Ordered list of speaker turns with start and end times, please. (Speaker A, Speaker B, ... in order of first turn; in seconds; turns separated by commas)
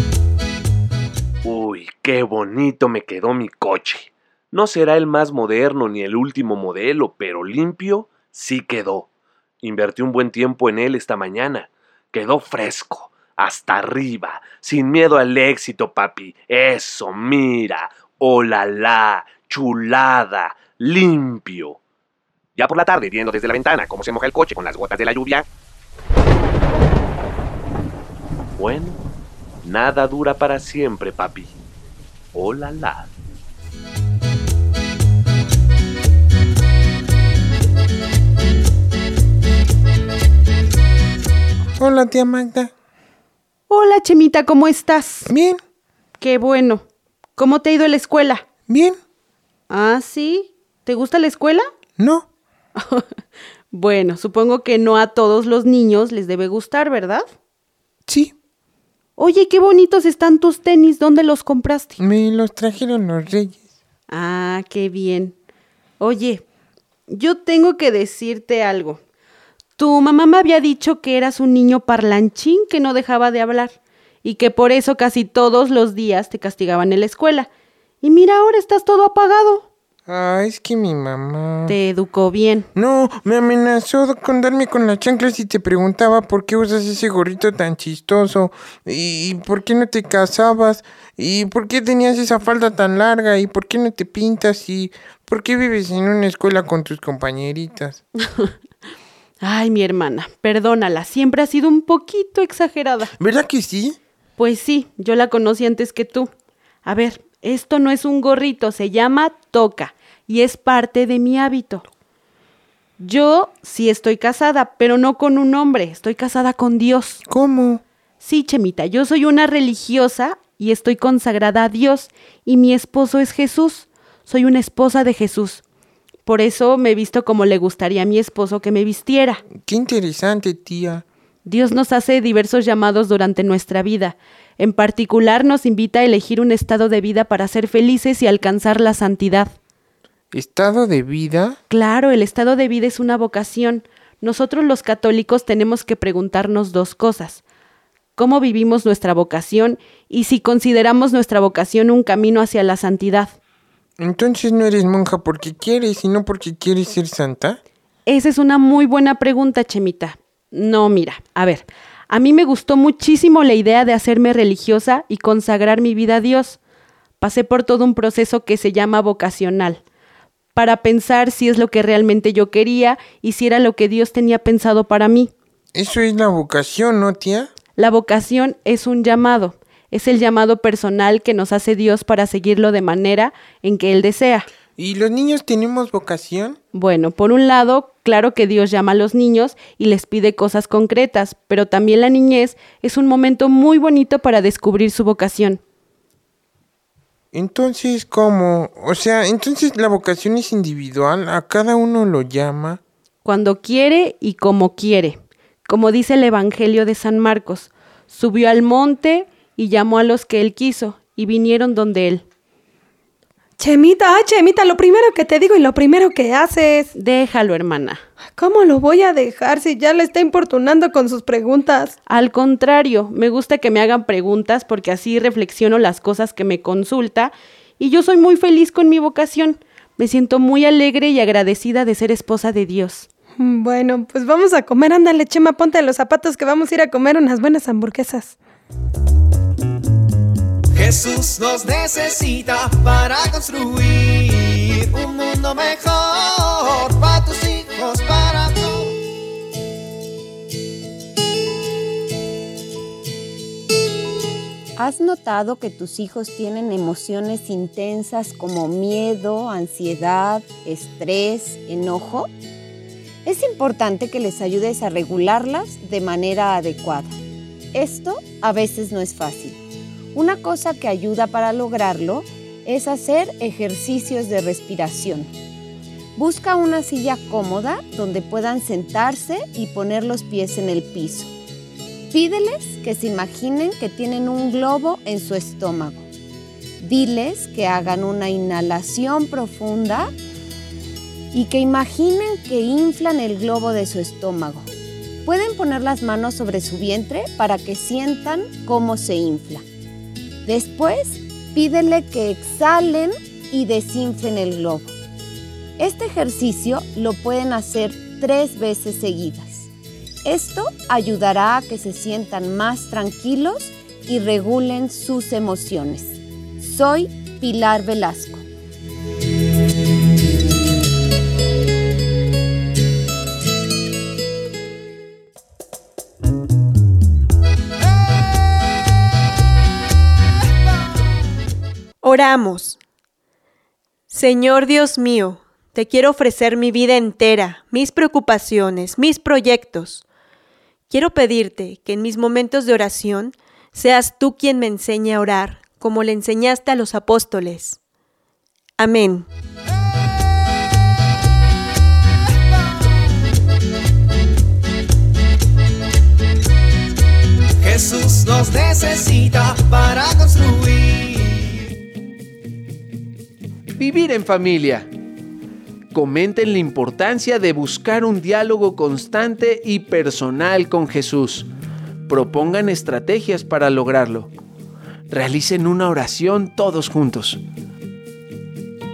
Speaker A: 1.4-9.1, Speaker A: 9.6-21.8, Speaker A: 22.6-25.4, Speaker A: 28.6-29.0, Speaker A: 29.6-31.5, Speaker A: 32.3-33.1, Speaker B: 41.8-42.7, Speaker C: 43.7-45.3, Speaker B: 45.3-45.6, Speaker C: 46.2-46.8, Speaker C: 47.4-48.4, Speaker B: 48.7-49.0, Speaker C: 49.7-51.7, Speaker B: 52.0-52.3, Speaker C: 53.7-57.3, Speaker B: 58.1-58.3, Speaker C: 59.2-62.0, Speaker B: 62.0-63.6, Speaker C: 64.1-65.3, Speaker C: 66.0-66.4, Speaker C: 67.1-69.0, Speaker C: 69.8-77.5, Speaker C: 78.0-79.7, Speaker B: 80.1-81.8, Speaker C: 81.7-82.7, Speaker B: 82.8-98.0, Speaker C: 99.4-103.1, Speaker B: 103.2-104.0, Speaker C: 104.4-106.3, Speaker C: 106.8-111.8, Speaker C: 113.0-117.2, Speaker B: 117.2-117.8, Speaker C: 118.2-125.6, Speaker C: 126.2-129.4, Speaker B: 129.6-131.0, Speaker C: 131.5-139.5, Speaker B: 140.3-141.6, Speaker C: 141.7-147.4, Speaker C: 148.2-153.3, Speaker B: 154.0-157.6, Speaker C: 158.1-166.6, Speaker C: 167.2-169.8, Speaker C: 170.6-175.3, Speaker B: 175.7-177.5, Speaker C: 177.8-184.5, Speaker B: 184.8-186.6, Speaker C: 186.8-195.6, Speaker B: 197.3-202.8, Speaker C: 203.2-212.2, Speaker D: 213.6-216.9, Speaker C: 217.0-218.0, Speaker D: 218.3-221.9, Speaker C: 222.1-233.1, Speaker D: 233.4-238.3, Speaker E: 240.7-249.0, Speaker F: 254.8-262.3, Speaker F: 263.2-267.1, Speaker F: 267.7-269.6, Speaker F: 270.1-275.3, Speaker F: 276.1-281.3, Speaker F: 282.1-286.1, Speaker F: 286.8-290.1, Speaker F: 291.3-294.7, Speaker F: 295.2-299.6, Speaker F: 300.4-304.9, Speaker F: 305.8-309.7, Speaker F: 310.2-318.4, Speaker G: 332.0-332.8, Speaker G: 334.1-340.0, Speaker G: 340.9-347.8, Speaker G: 348.8-349.3, Speaker E: 357.6-361.6, Speaker H: 363.8-364.9, Speaker H: 365.9-371.5, Speaker H: 372.1-374.3, Speaker H: 375.1-377.4